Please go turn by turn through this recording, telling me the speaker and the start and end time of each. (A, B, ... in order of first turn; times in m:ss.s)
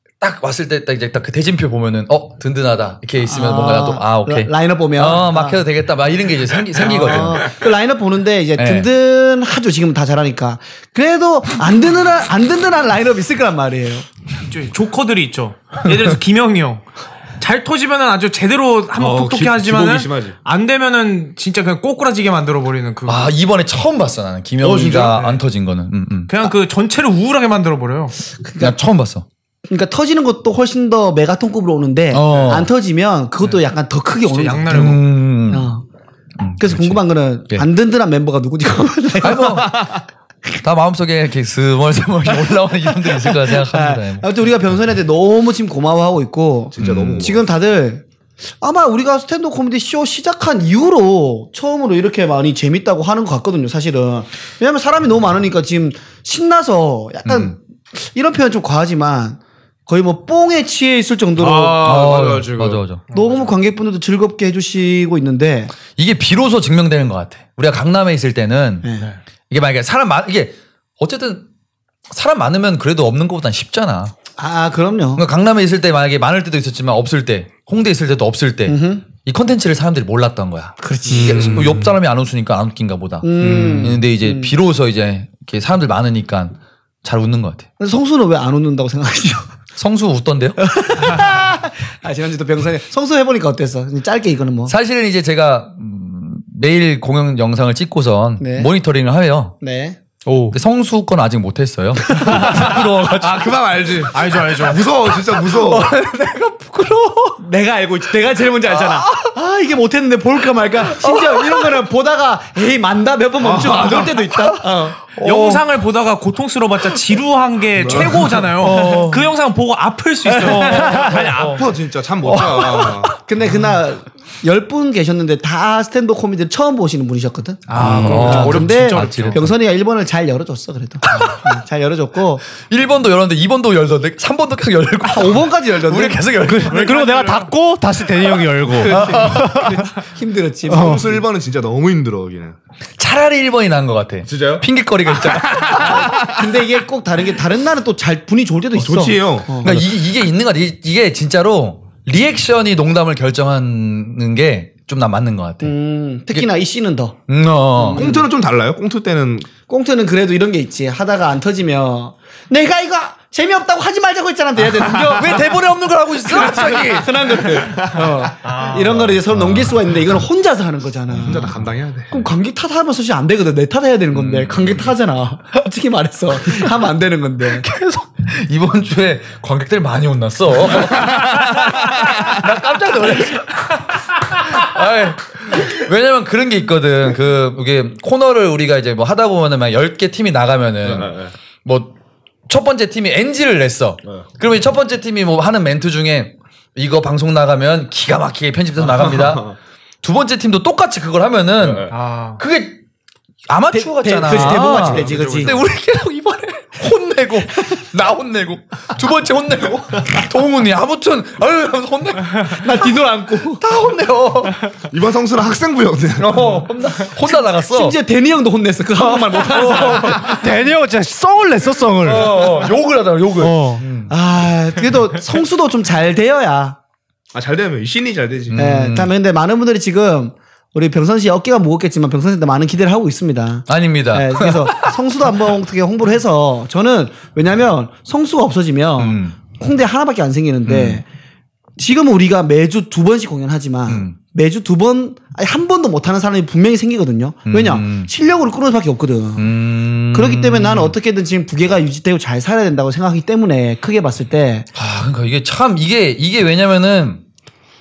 0:00.2-0:07.6 A
0:03.2-0:05.6 B
0:06.8-0:14.1 B
0:08.6-0:08.9 A
0:14.5-0:16.9 C
0:17.4-0:23.3 C
0:19.0-0:20.4 D
0:23.1-0:26.3 A
0:24.6-0:25.4 D
0:26.3-0:28.2 C
0:28.4-0:28.8 B
0:28.6-0:29.2 A
0:29.7-0:35.0 B
0:32.1-0:32.7 A
0:34.3-0:35.1 C
0:34.7-0:35.7 A
0:35.5-0:35.8 B
0:36.4-0:37.6 A
0:36.6-0:39.9 B
0:39.2-0:39.8 A
0:39.7-0:40.0 D
0:40.6-0:44.2 A
0:43.0-0:48.0 B
0:46.8-0:47.4 D
0:46.8-0:47.2 A
0:48.6-1:02.0 B
0:57.3-0:57.5 A
1:01.4-1:02.8 D
1:01.8-1:03.0 A
1:03.1-1:03.5 C
1:03.1-1:05.7 B
1:06.0-1:08.9 A
1:08.8-1:09.1 B
1:09.5-1:11.5 A
1:12.1-1:14.1 A
1:14.4-1:15.2 B
1:15.2-1:27.7 A
1:18.7-1:19.0 B
1:20.8-1:21.6 B
1:21.1-1:21.8 E
1:23.2-1:24.5 B
1:23.4-1:24.0 E
1:27.8-1:29.5 B
1:29.8-1:30.6 A
1:30.6-1:34.7 B
1:34.7-1:39.6 A
1:38.4-1:38.7 B
1:39.6-1:40.0 B
1:40.3-1:40.6 E
1:40.5-1:43.7 A
1:42.0-1:42.7 B
1:42.5-1:46.0 D
1:44.1-1:44.8 C
1:45.6-1:47.4 A
1:47.4-1:55.0 B
1:51.0-1:51.6 A
1:53.4-1:54.2 D
1:55.2-1:55.6 A
1:55.2-2:01.7 C
1:57.8-1:58.4 D
1:58.6-1:59.2 A
1:58.8-1:59.1 B
2:00.4-2:01.0 E
2:00.8-2:03.1 D
2:01.3-2:01.7 A
2:02.4-2:03.0 A
2:03.1-2:12.4 B
2:07.7-2:09.4 C
2:07.8-2:09.5 A
2:07.8-2:08.5 E
2:11.1-2:11.4 A
2:12.7-2:17.0 A
2:15.0-2:16.3 B
2:16.4-2:19.8 E
2:16.7-2:17.5 C
2:18.7-2:21.2 B
2:20.7-2:21.1 E
2:20.7-2:22.6 D
2:23.0-2:26.1 A
2:24.2-2:24.7 D
2:25.2-2:26.5 D
2:25.7-2:29.8 B
2:28.8-2:29.6 D
2:29.6-2:35.7 A
2:35.6-2:37.2 B
2:37.3-2:38.0 A
2:37.8-2:38.2 B
2:38.0-2:39.5 D
2:39.7-2:45.6 B
2:45.0-2:47.3 A
2:46.3-2:51.6 B
2:47.4-2:48.3 D
2:48.4-2:49.0 C
2:48.8-2:49.6 D
2:51.2-2:52.3 D
2:52.1-2:57.7 B
2:54.1-2:54.8 A
2:57.5-3:11.9 A
3:10.8-3:11.3 D
3:12.5-3:22.8 A
3:18.9-3:19.5 D
3:21.6-3:21.9 D
3:21.9-3:22.4 C
3:23.5-3:32.8 A
3:23.7-3:25.6 B
3:24.8-3:25.4 D
3:25.1-3:25.5 C
3:32.5-3:33.6 B
3:33.6-3:34.7 A
3:34.9-3:36.4 D
3:36.2-3:38.0 A
3:37.3-3:40.4 B
3:39.5-3:40.2 A
3:39.7-3:42.4 E
3:42.0-3:44.1 A
3:43.4-3:43.8 E
3:44.1-3:46.8 B
3:47.3-3:48.7 D
3:48.5-3:49.1 A
3:48.6-4:01.0 B
3:53.7-3:54.9 A
3:59.0-3:59.4 A
4:00.7-4:01.0 A
4:01.8-4:09.5 B
4:03.9-4:04.2 A
4:07.5-4:08.1 A
4:09.4-4:11.0 A
4:10.1-4:14.7 B
4:14.8-4:17.2 A